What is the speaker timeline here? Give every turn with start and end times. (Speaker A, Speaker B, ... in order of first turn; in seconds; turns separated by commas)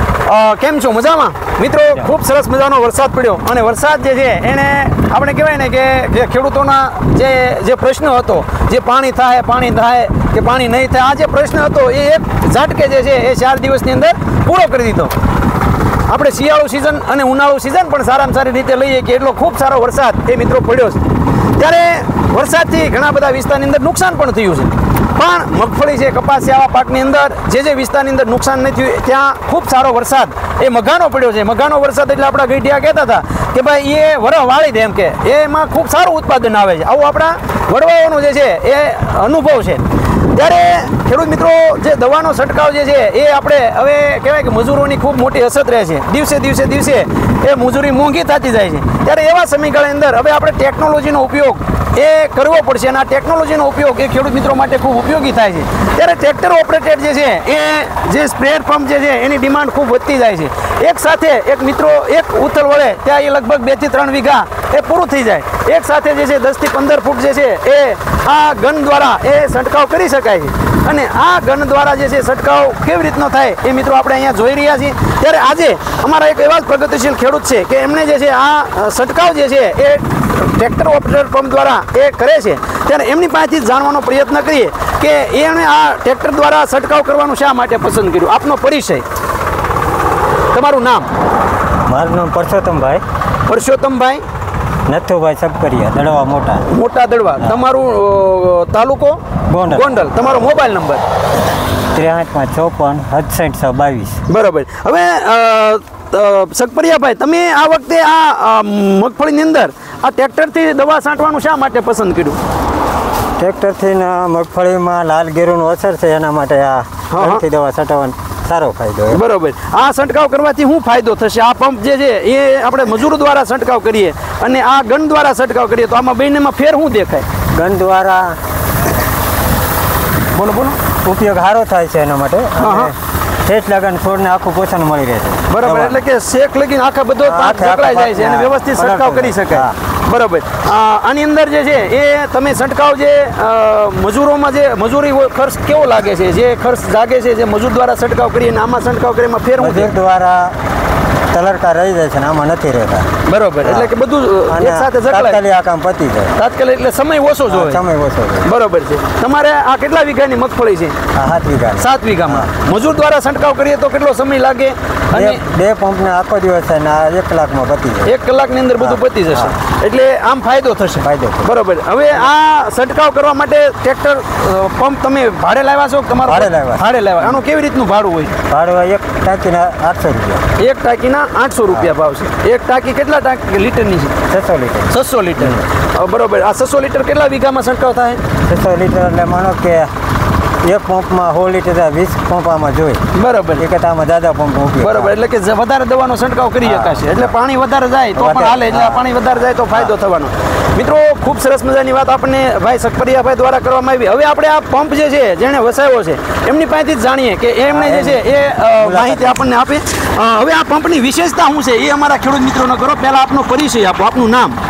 Speaker A: 0.3-15.1, Speaker A: 16.1-21.0, Speaker A: 21.6-89.0, Speaker A: 90.5-91.1, Speaker B: 91.9-93.0, Speaker A: 93.5-94.2, Speaker B: 94.9-96.7, Speaker A: 96.7-101.0, Speaker B: 99.5-100.0, Speaker B: 101.9-104.2, Speaker A: 104.3-112.4, Speaker B: 113.4-119.2, Speaker A: 117.1-117.4, Speaker A: 119.1-127.3, Speaker B: 127.5-128.4, Speaker A: 130.3-130.8, Speaker B: 131.0-136.0, Speaker A: 132.6-132.9, Speaker A: 135.5-149.9, Speaker B: 137.2-139.8, Speaker B: 149.6-150.6, Speaker B: 151.3-153.1, Speaker A: 153.3-155.4, Speaker B: 153.6-153.9, Speaker B: 154.5-156.4, Speaker A: 156.3-157.8, Speaker B: 157.5-158.5, Speaker A: 158.4-161.0, Speaker B: 161.1-162.5, Speaker A: 161.8-165.4, Speaker B: 165.1-168.1, Speaker A: 168.1-178.3, Speaker B: 168.8-169.5, Speaker B: 171.0-171.5, Speaker B: 176.2-176.8, Speaker B: 178.5-180.4, Speaker A: 180.6-184.2, Speaker B: 184.3-185.6, Speaker A: 184.9-188.2, Speaker B: 188.4-189.9, Speaker B: 190.6-193.0, Speaker A: 193.1-193.6, Speaker B: 193.6-195.1, Speaker A: 194.8-214.6, Speaker B: 196.6-197.3, Speaker B: 198.2-199.1, Speaker B: 207.7-208.2, Speaker B: 208.8-209.4